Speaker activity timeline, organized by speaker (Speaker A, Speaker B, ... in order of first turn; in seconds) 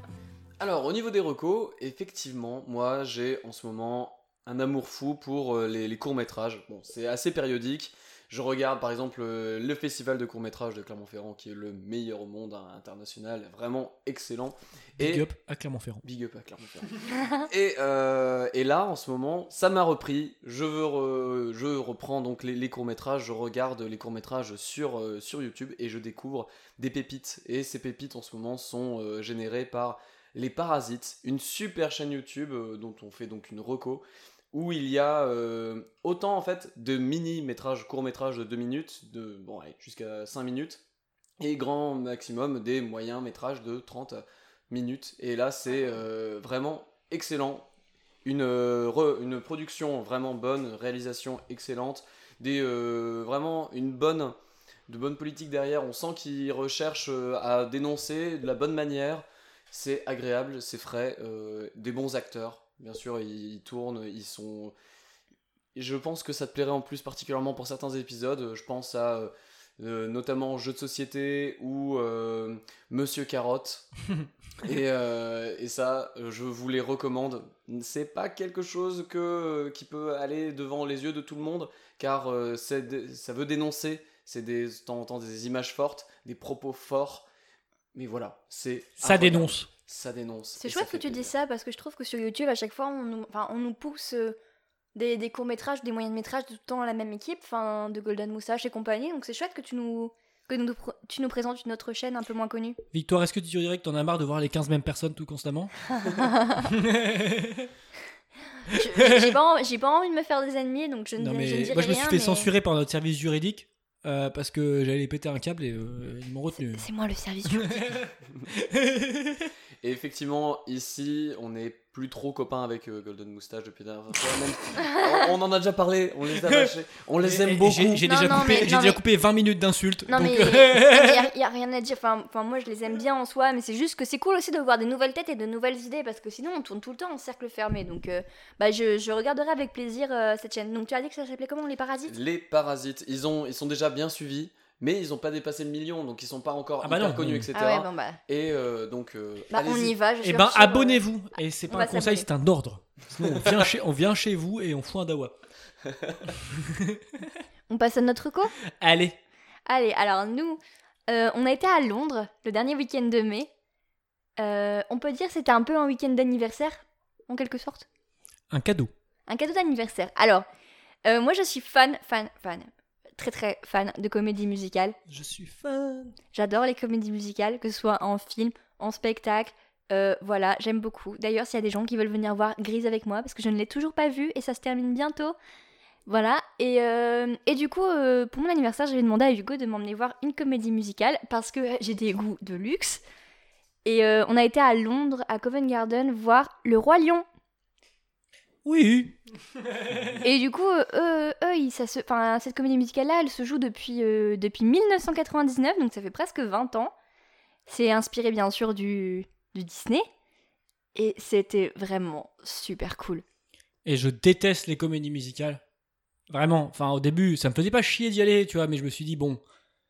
Speaker A: 0.6-15.3, 16.0-40.8, 41.4-47.7, 48.2-54.4, 54.9-64.8, 65.8-73.9, 74.6-87.3, 88.0-91.3, 119.8-128.0, 142.1-150.0, 153.2-153.5
Speaker B: 15.0-16.0, 89.0-89.7, 102.9-105.7, 106.6-107.7, 108.7-109.3, 111.2-116.8, 117.6-119.5, 127.2-131.3, 146.8-147.5, 150.2-155.3, 156.6-157.2, 158.8-159.2, 168.5-168.9, 175.1-176.2, 198.7-199.2, 199.7-200.2, 213.8-215.6, 216.3-219.4
Speaker C: 90.6-94.4, 95.0-102.8, 106.0-106.6, 108.7-112.5, 116.6-117.8, 128.0-129.0, 130.1-142.1, 147.5-148.2, 149.5-151.1, 151.7-152.3, 157.7-158.5, 159.7-163.5, 164.4-167.9, 169.3-170.4, 171.1-175.0, 176.3-185.4, 186.1-193.0, 193.8-197.2, 200.2-206.9, 207.7-210.1, 210.9-213.2